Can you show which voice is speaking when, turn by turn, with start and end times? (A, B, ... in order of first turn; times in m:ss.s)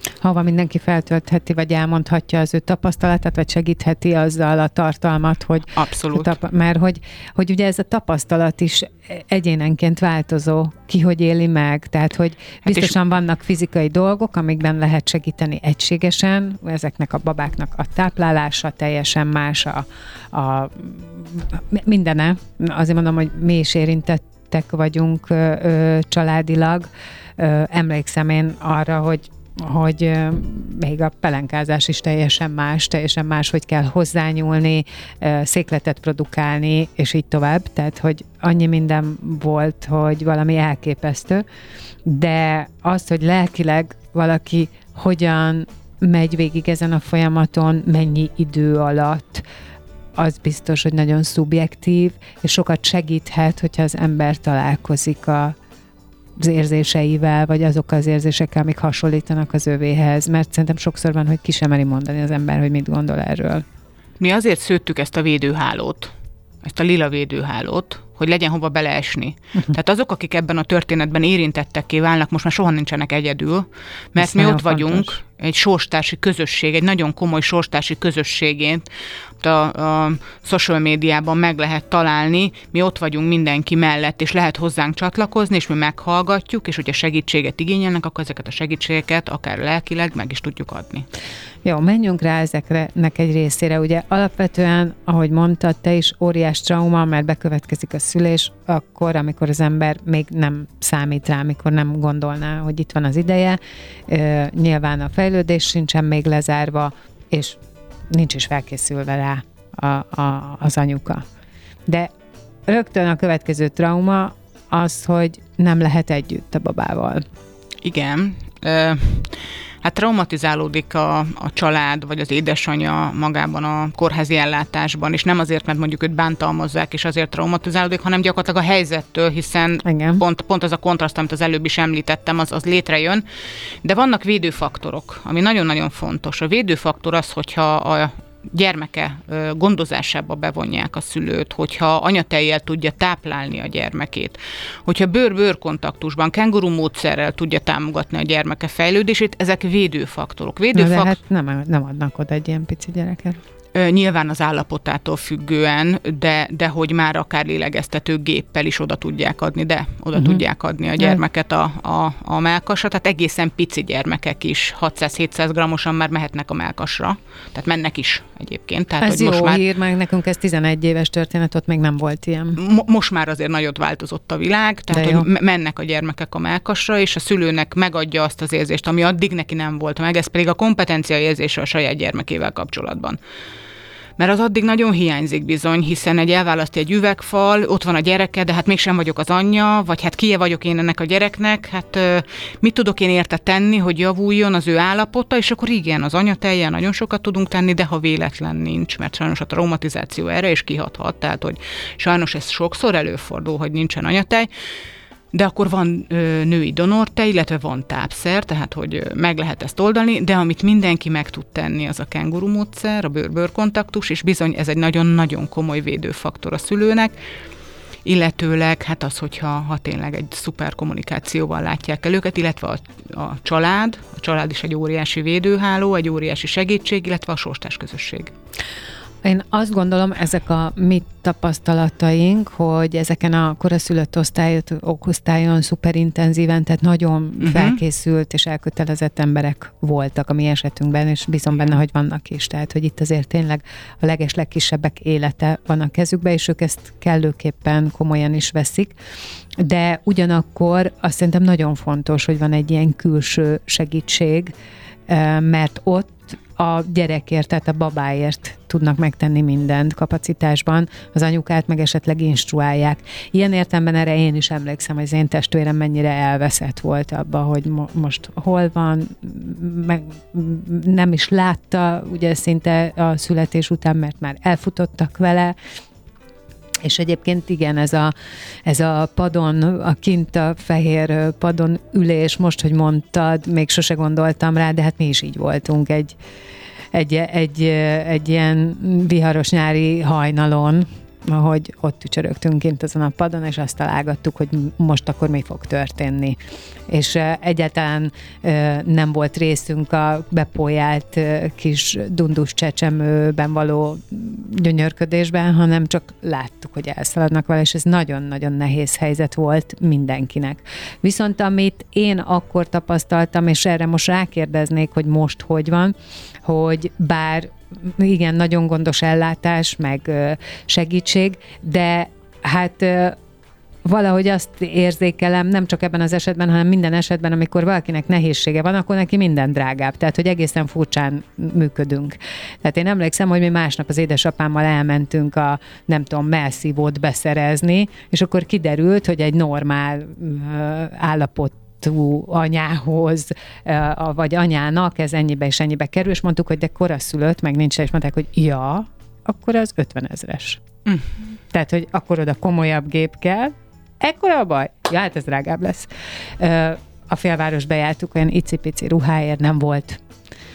0:00.2-0:41.4 A
0:05.7-0:06.3 B
0:42.0-0:49.4 A
0:50.2-0:55.6 A
0:56.4-1:03.6 A
1:04.2-1:18.8 B
1:14.2-1:15.1 A
1:19.4-1:31.1 B
1:31.6-1:47.6 A
1:48.1-1:51.2 A
1:51.8-1:52.1 A
1:52.7-1:57.2 A
1:57.8-2:13.2 B
2:09.8-2:10.2 A
2:13.8-2:31.2 B
2:30.7-2:33.4 A
2:33.7-2:49.6 B
2:40.1-2:40.4 A
2:49.0-2:52.6 A
2:52.6-3:03.2 B
2:54.9-2:55.2 A
3:04.2-3:24.5 B
3:25.3-3:37.1 B
3:38.0-3:48.3 B
3:49.2-4:08.9 A
3:57.4-3:57.8 B
4:09.6-4:14.5 A
4:15.1-4:35.5 A
4:36.8-4:38.1 A
4:38.6-4:46.2 A
4:46.9-5:23.2 A
5:23.8-5:50.6 A
5:51.5-6:00.0 A